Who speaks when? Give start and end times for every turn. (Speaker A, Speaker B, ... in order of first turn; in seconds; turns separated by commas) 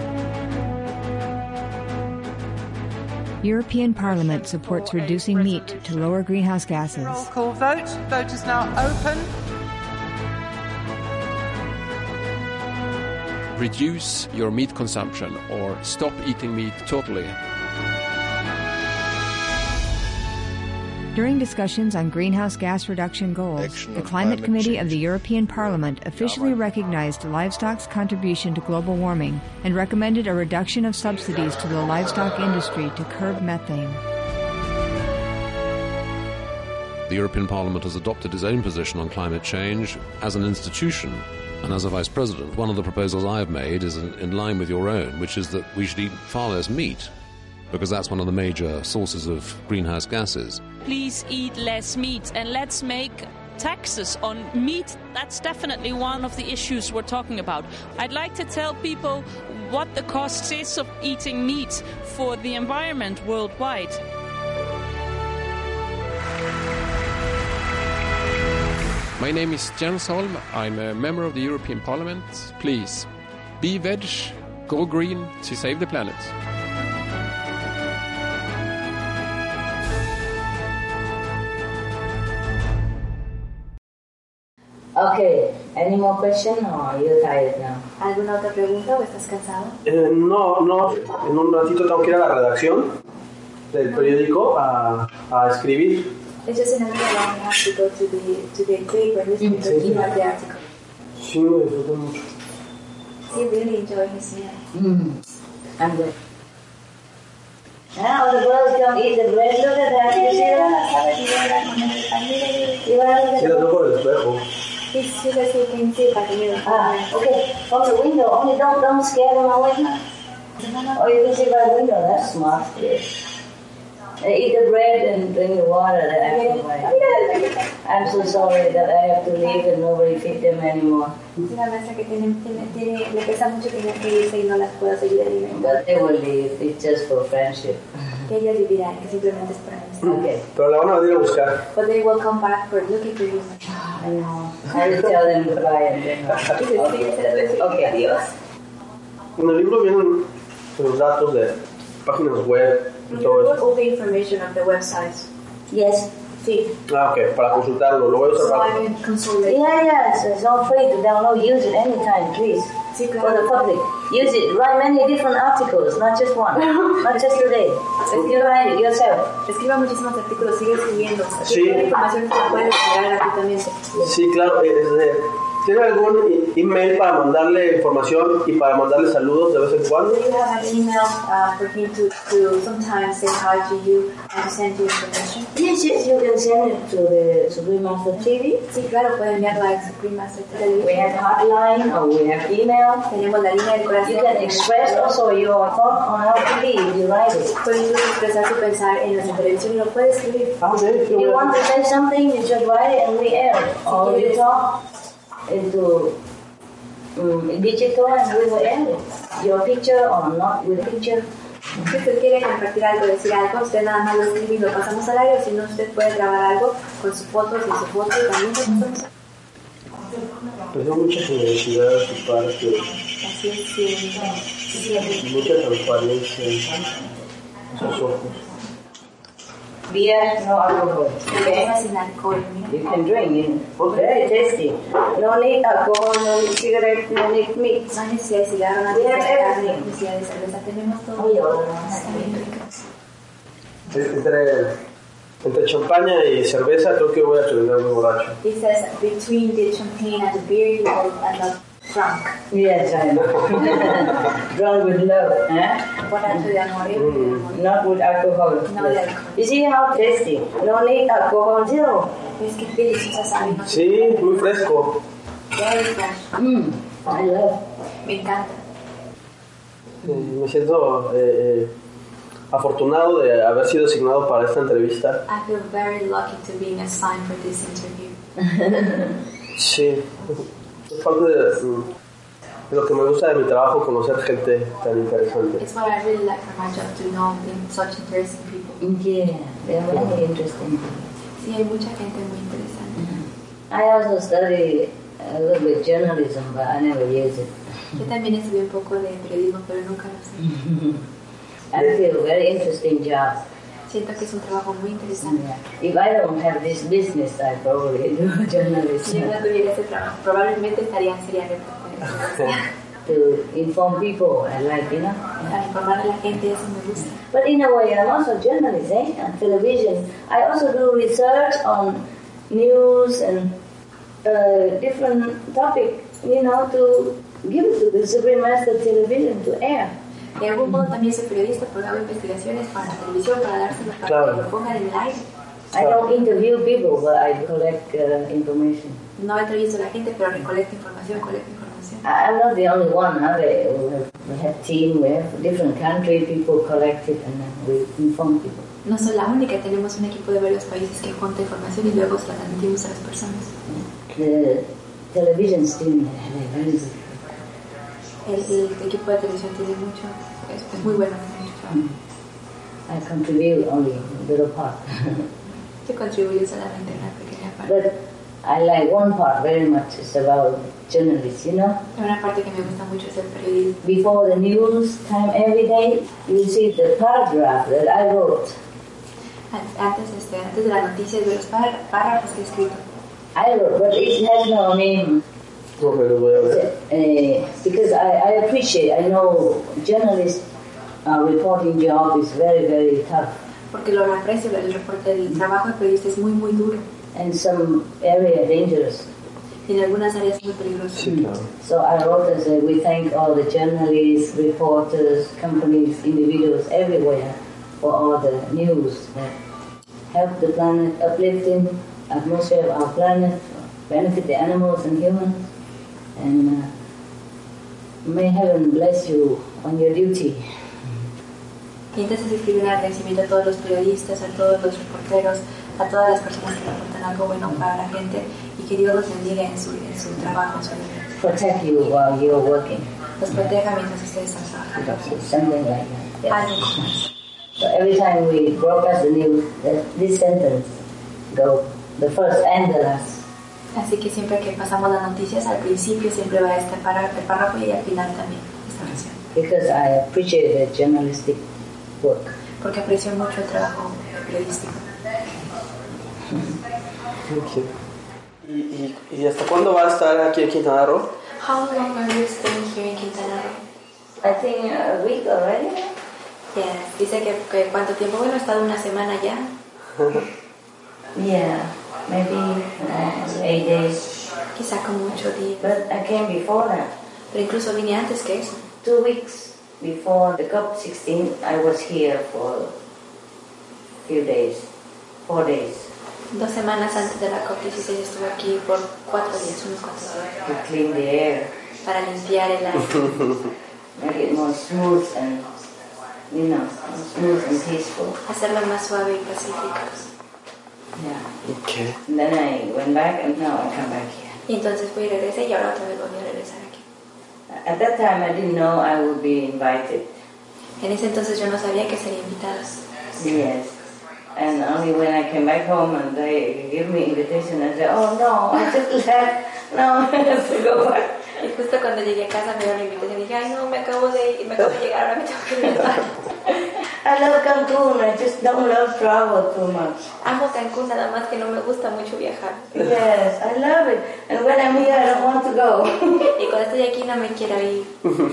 Speaker A: 3.4-7.3, Speaker B: 4.0-9.3, Speaker C: 13.5-17.4, Speaker A: 21.1-34.0, Speaker D: 37.1-47.1, Speaker D: 47.7-50.6, Speaker E: 50.8-64.0, Speaker C: 69.2-76.3, Speaker F: 84.9-87.8, Speaker G: 88.0-89.8, Speaker H: 89.8-93.0, Speaker H: 93.7-96.1, Speaker G: 96.4-100.6, Speaker F: 99.4-99.9, Speaker H: 99.6-100.0, Speaker H: 101.2-102.2, Speaker G: 103.3-104.6, Speaker F: 104.7-105.2, Speaker F: 105.8-106.1, Speaker F: 107.9-110.7, Speaker G: 110.1-112.8, Speaker F: 112.8-113.8, Speaker H: 113.4-114.4, Speaker G: 114.9-117.1, Speaker F: 116.6-120.0, Speaker F: 120.9-123.1, Speaker F: 124.2-127.0, Speaker G: 126.2-129.7, Speaker F: 127.8-131.2, Speaker G: 131.4-135.9, Speaker F: 135.5-138.2, Speaker G: 138.3-140.1, Speaker F: 140.0-140.4, Speaker H: 140.1-141.6, Speaker G: 141.7-143.7, Speaker F: 143.7-147.0, Speaker G: 146.6-148.2, Speaker F: 147.6-147.9, Speaker H: 149.4-153.6, Speaker G: 153.1-155.3, Speaker F: 155.7-156.1, Speaker G: 156.4-156.7, Speaker H: 156.9-158.8, Speaker G: 158.3-159.8, Speaker F: 159.4-169.3, Speaker G: 162.9-163.6, Speaker G: 168.0-168.4, Speaker G: 169.5-173.8, Speaker H: 171.4-171.9, Speaker H: 174.0-180.2, Speaker G: 180.1-185.5, Speaker F: 185.5-188.6, Speaker G: 188.7-191.3, Speaker F: 190.8-193.1, Speaker G: 193.1-195.2, Speaker F: 194.0-197.5, Speaker G: 197.6-200.7, Speaker H: 200.6-201.4, Speaker F: 200.9-204.8, Speaker G: 203.9-204.4, Speaker F: 205.5-206.2, Speaker F: 207.1-211.2, Speaker G: 211.8-219.1, Speaker H: 220.7-222.9, Speaker G: 223.1-225.1, Speaker H: 225.2-226.7, Speaker H: 227.7-228.4, Speaker F: 229.9-231.7, Speaker G: 231.2-232.8, Speaker F: 232.7-237.9, Speaker G: 237.9-242.8, Speaker F: 238.9-239.9, Speaker F: 241.2-242.4, Speaker H: 243.9-244.7, Speaker H: 245.4-248.4, Speaker G: 248.4-252.4, Speaker F: 252.5-256.4, Speaker G: 256.1-257.6, Speaker H: 256.9-257.4, Speaker F: 257.5-262.1, Speaker G: 258.7-259.4, Speaker G: 262.4-264.8, Speaker H: 263.6-265.0, Speaker G: 265.5-266.3, Speaker F: 266.3-267.6, Speaker G: 268.0-268.6, Speaker H: 270.0-271.7, Speaker H: 272.5-275.2, Speaker G: 275.3-278.1, Speaker F: 278.4-279.1, Speaker H: 279.6-281.9, Speaker H: 282.7-285.6, Speaker G: 285.6-288.8, Speaker F: 288.8-291.1, Speaker G: 291.4-293.2, Speaker F: 293.0-298.0, Speaker G: 298.0-300.4, Speaker F: 300.4-301.1, Speaker F: 301.7-303.4, Speaker G: 303.9-305.4, Speaker F: 305.2-309.3, Speaker G: 309.0-312.6, Speaker F: 313.0-315.5, Speaker G: 315.4-317.2, Speaker F: 317.3-323.5, Speaker F: 324.2-329.9, Speaker G: 330.4-335.2, Speaker H: 334.1-334.4, Speaker F: 335.7-339.0, Speaker G: 339.2-342.0, Speaker F: 342.0-348.7, Speaker G: 348.8-353.5, Speaker F: 353.7-357.2, Speaker G: 358.2-361.8, Speaker F: 362.9-365.3, Speaker G: 365.8-367.7, Speaker F: 367.6-371.8, Speaker G: 371.9-373.8, Speaker F: 373.8-378.6, Speaker G: 379.5-382.8, Speaker F: 383.3-385.2, Speaker H: 385.8-386.6, Speaker F: 386.4-390.4, Speaker F: 391.0-393.4, Speaker G: 393.7-396.8, Speaker F: 397.1-399.1, Speaker G: 399.7-401.1, Speaker H: 400.9-401.5, Speaker F: 401.0-409.4, Speaker F: 410.1-415.5, Speaker F: 416.1-416.7, Speaker F: 418.0-421.0, Speaker G: 421.9-431.2, Speaker F: 431.1-432.9, Speaker G: 433.2-434.9, Speaker F: 434.8-436.9, Speaker G: 436.3-437.1, Speaker F: 437.6-440.8, Speaker F: 441.3-443.2, Speaker G: 443.7-449.2, Speaker F: 449.3-451.4, Speaker F: 452.0-452.3, Speaker G: 452.6-454.8, Speaker F: 456.3-456.6, Speaker H: 457.2-457.7, Speaker H: 458.4-461.1, Speaker G: 461.4-463.6, Speaker F: 464.2-465.9, Speaker G: 466.5-469.5, Speaker F: 471.1-474.1, Speaker G: 474.5-475.7, Speaker F: 475.6-476.9, Speaker G: 477.3-478.6, Speaker F: 478.8-482.7, Speaker F: 484.0-484.7, Speaker F: 485.2-485.9, Speaker G: 486.3-490.4, Speaker F: 490.4-491.5, Speaker G: 491.8-493.2, Speaker H: 493.0-493.4, Speaker F: 494.0-495.5, Speaker F: 496.3-498.2, Speaker G: 498.2-500.1, Speaker F: 500.9-501.4, Speaker H: 501.4-502.0, Speaker F: 502.0-504.4, Speaker G: 504.4-506.8, Speaker F: 507.5-510.1, Speaker G: 510.8-512.8, Speaker F: 513.2-513.8, Speaker F: 514.3-521.3, Speaker G: 521.4-526.2, Speaker F: 526.9-530.1, Speaker G: 530.2-532.8, Speaker F: 532.7-536.3, Speaker G: 534.7-535.3, Speaker G: 536.2-537.9